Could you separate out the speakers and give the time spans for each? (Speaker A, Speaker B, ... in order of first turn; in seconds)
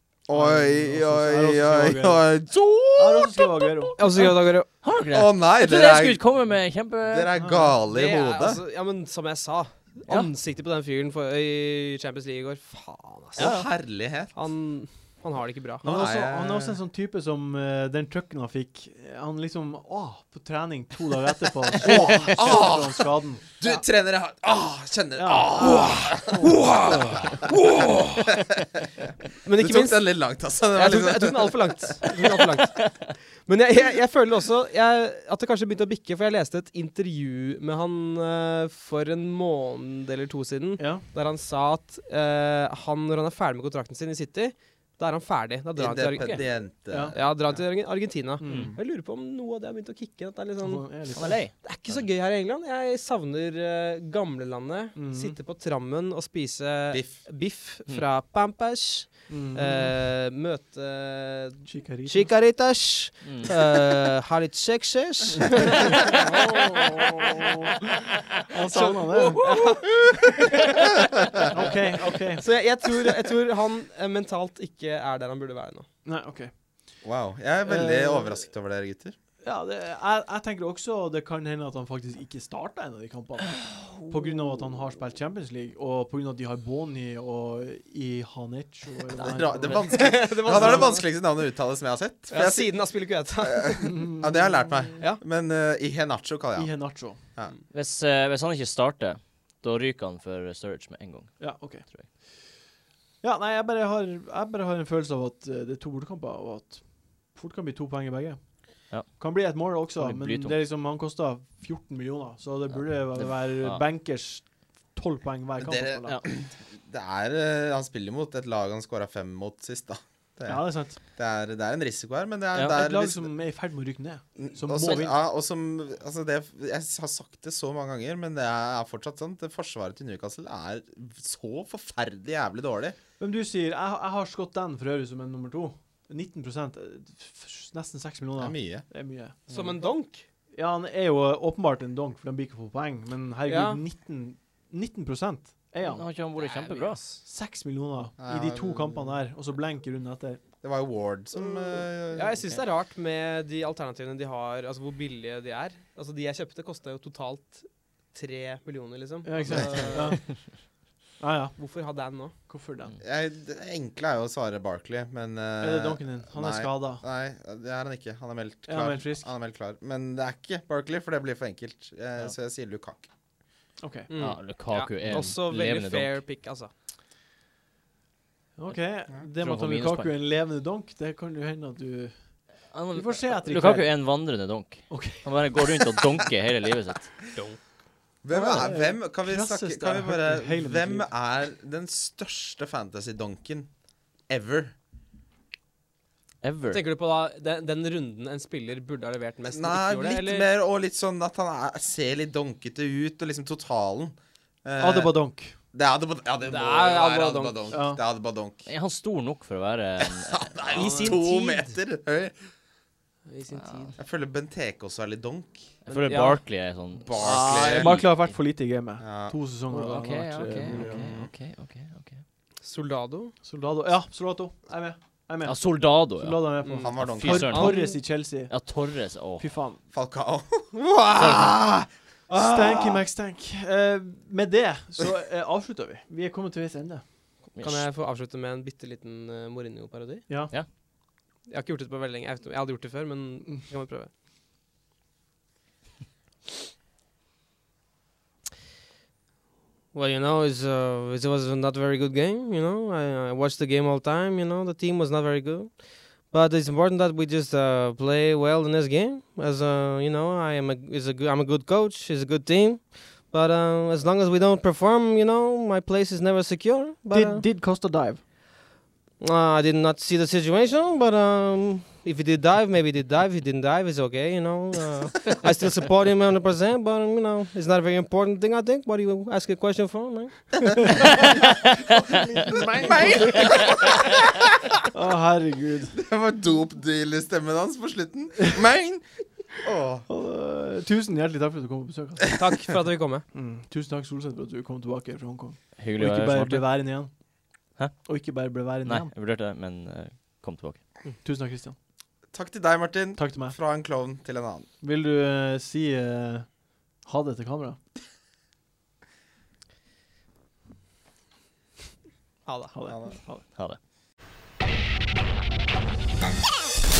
Speaker A: 0.3-3.6, 5.1-6.4, 7.0-8.6, 13.4-14.3, 15.8-16.8, 21.9-23.1, 23.6-28.9, 29.5-32.2, 45.8-47.6, 48.5-48.8, 56.9-57.2, 77.0-79.1, 89.2-97.5, 115.6-123.3, 124.4-133.0, 138.4-138.8, 148.2-149.2, 150.6-152.6, 159.5-159.9, 163.0-173.1, 188.2-193.7, 194.3-194.7, 199.5-205.2, 205.7-208.7, 210.0-212.4, 214.0-215.7, 217.1-218.0, 219.0-219.3, 220.6-221.3, 226.8-227.6, 229.9-233.0, 282.8-284.7, 285.9-290.1, 302.3-304.7, 312.9-313.2
Speaker B: 0.3-2.4, 3.0-4.0, 7.4-7.7, 15.8-23.4, 25.1-27.1, 40.8-41.0, 46.9-47.1, 48.4-48.7, 50.6-51.5, 55.0-55.4, 59.3-60.0, 61.6-62.3, 66.2-67.7, 68.5-69.5, 71.5-72.4, 76.0-76.5, 77.7-78.4, 79.4-90.9, 93.8-94.5, 96.5-97.2, 101.4-101.9, 103.2-108.4, 109.0-116.2, 120.5-121.0, 122.7-125.2, 133.2-139.4, 140.5-146.1, 147.2-150.4, 159.2-160.2, 161.2-161.6, 162.5-162.9, 165.6-167.0, 168.7-169.3, 173.8-174.1, 178.6-182.3, 182.9-184.0, 184.9-185.8, 188.3-191.1, 204.8-205.6, 207.7-208.0, 217.1-221.1, 223.4-228.6, 229.4-229.8, 232.3-237.0, 240.3-240.5, 267.1-268.2, 282.1-283.7, 284.9-286.0, 290.1-292.3, 293.3-297.1, 298.0-299.1, 301.2-301.7, 303.1-303.6, 304.8-307.8, 312.7-313.4
Speaker C: 4.0-4.7, 7.9-13.6, 14.3-15.8, 29.4-67.3, 68.7-70.8, 72.4-75.9, 89.9-91.0, 92.3-94.2, 139.5-140.3, 143.5-143.8, 146.3-147.2, 152.1-160.3, 161.6-162.4, 174.1-176.7, 196.7-200.5, 206.4-207.8, 210.7-211.7, 213.3-214.0, 215.9-216.4, 222.6-223.3, 226.6-228.0, 237.6-240.3, 241.5-244.1, 249.9-267.4, 269.2-281.1, 292.4-293.2, 312.4-312.7
Speaker D: 4.2-7.3, 13.4-13.7, 51.1-52.1, 63.2-63.5, 97.7-102.1, 109.9-110.7, 113.1-113.8, 122.5-122.8, 145.8-147.0, 174.2-176.2, 179.4-180.1, 182.7-187.2, 196.4-196.8, 208.7-210.5, 215.9-218.3, 219.7-222.2, 225.4-229.4, 231.1-231.6, 237.5-237.9, 295.8-296.8, 297.8-298.1, 298.8-300.8